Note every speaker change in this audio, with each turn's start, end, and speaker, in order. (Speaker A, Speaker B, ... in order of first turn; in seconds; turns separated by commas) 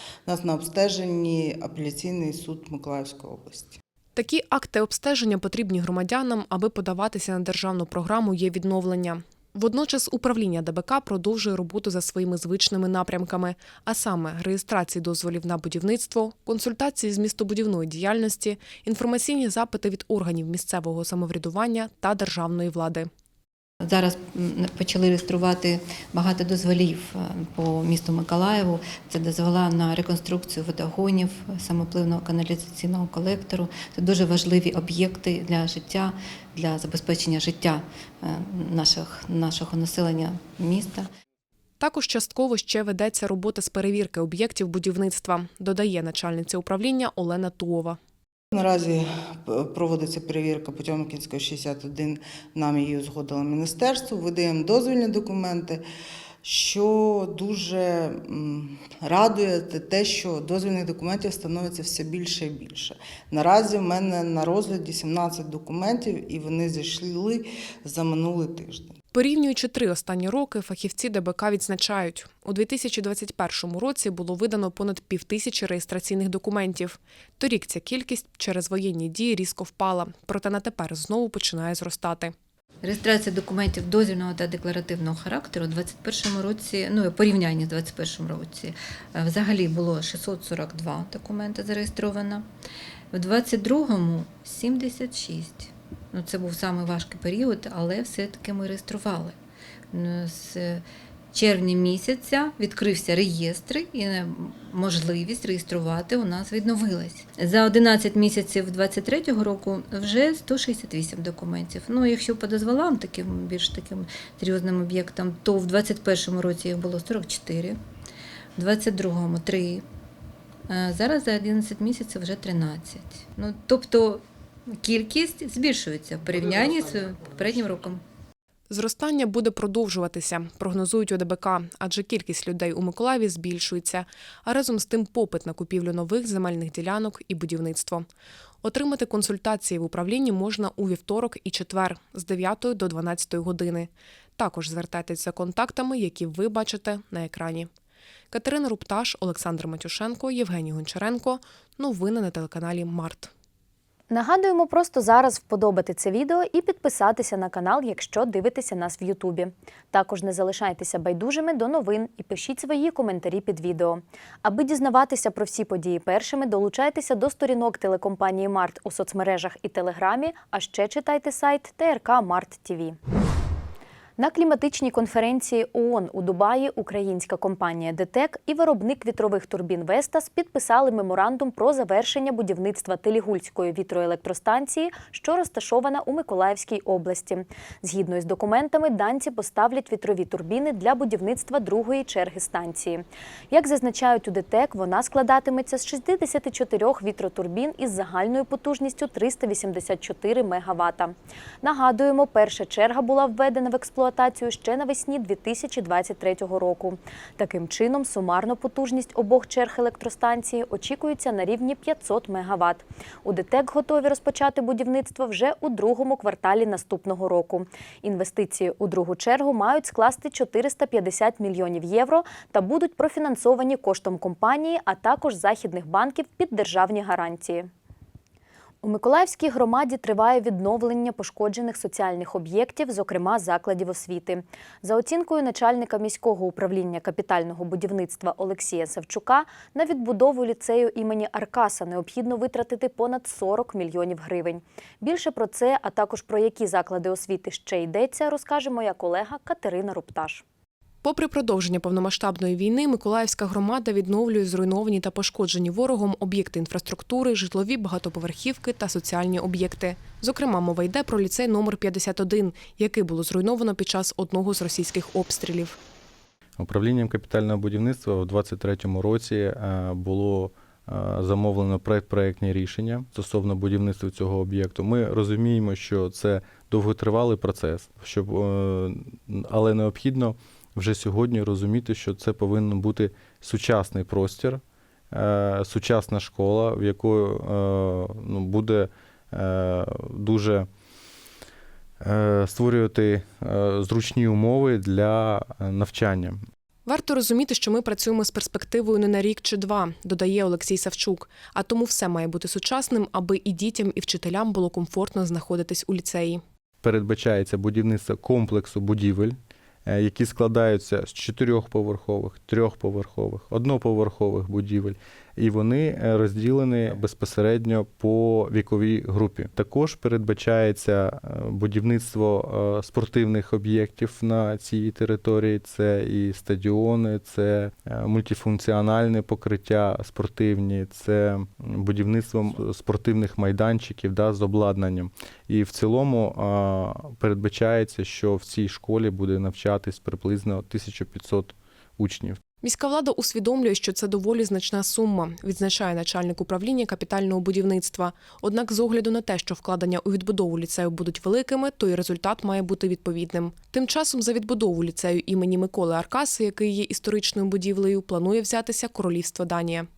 Speaker A: 0.3-3.8, Speaker B: 4.2-23.1, Speaker C: 23.8-41.1, Speaker B: 41.8-48.0, Speaker A: 48.5-55.8, Speaker A: 56.4-69.0, Speaker B: 69.1-82.3, Speaker C: 82.8-92.5, Speaker C: 93.1-99.4, Speaker C: 99.9-117.8, Speaker C: 118.6-119.8, Speaker C: 120.7-128.0, Speaker B: 128.7-138.1, Speaker B: 138.6-147.7, Speaker B: 148.3-153.3, Speaker D: 154.1-173.0, Speaker D: 174.2-227.7, Speaker D: 228.8-250.4, Speaker B: 251.0-265.8, Speaker E: 266.6-284.6, Speaker E: 285.1-290.7, Speaker E: 292.0-296.4, Speaker B: 296.9-306.4, Speaker E: 306.8-309.4, Speaker E: 309.9-342.4, Speaker B: 342.6-359.9